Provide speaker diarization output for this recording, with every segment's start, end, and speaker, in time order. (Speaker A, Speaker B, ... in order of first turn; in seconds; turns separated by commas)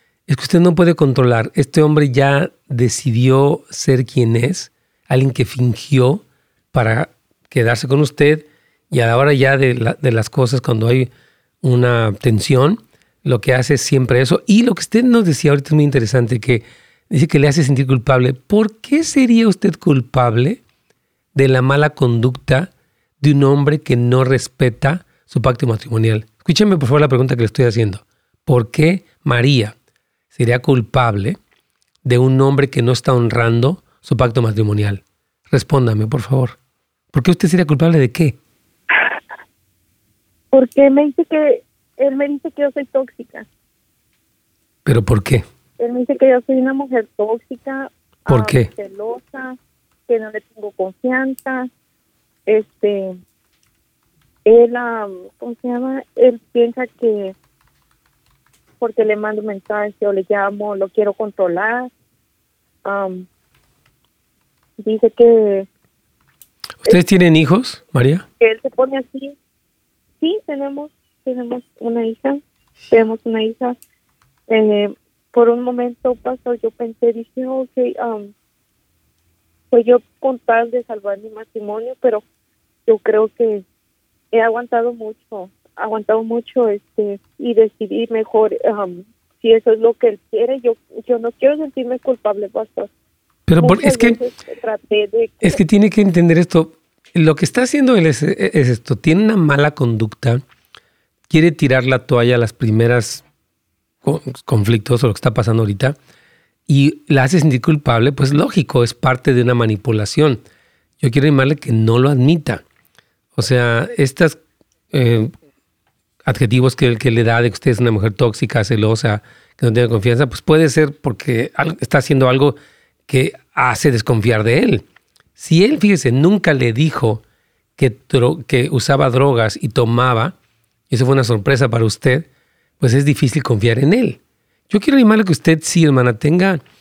Speaker A: 0.3-11.1, Speaker A: 11.6-20.6, Speaker A: 21.3-29.7, Speaker A: 30.3-31.4, Speaker A: 32.0-36.6, Speaker A: 37.1-38.4, Speaker B: 40.5-43.5, Speaker A: 44.9-45.4, Speaker B: 45.8-51.7, Speaker A: 48.3-48.7, Speaker B: 52.5-53.1, Speaker B: 54.4-57.3, Speaker B: 58.8-61.9, Speaker B: 62.8-63.3, Speaker B: 64.8-65.7, Speaker A: 66.8-68.2, Speaker B: 68.4-69.3, Speaker B: 70.2-73.8, Speaker B: 74.5-78.3, Speaker B: 79.7-82.2, Speaker B: 82.8-83.6, Speaker B: 84.3-92.9, Speaker A: 93.5-94.2, Speaker B: 93.6-95.6, Speaker A: 95.4-100.4, Speaker A: 101.3-103.2, Speaker A: 104.0-106.0, Speaker A: 106.7-110.4, Speaker A: 111.0-112.6, Speaker A: 113.3-114.4, Speaker A: 114.9-115.3, Speaker A: 116.2-124.8, Speaker A: 125.4-127.2, Speaker A: 127.8-130.3, Speaker A: 130.9-132.3, Speaker A: 132.8-134.2, Speaker A: 134.7-136.6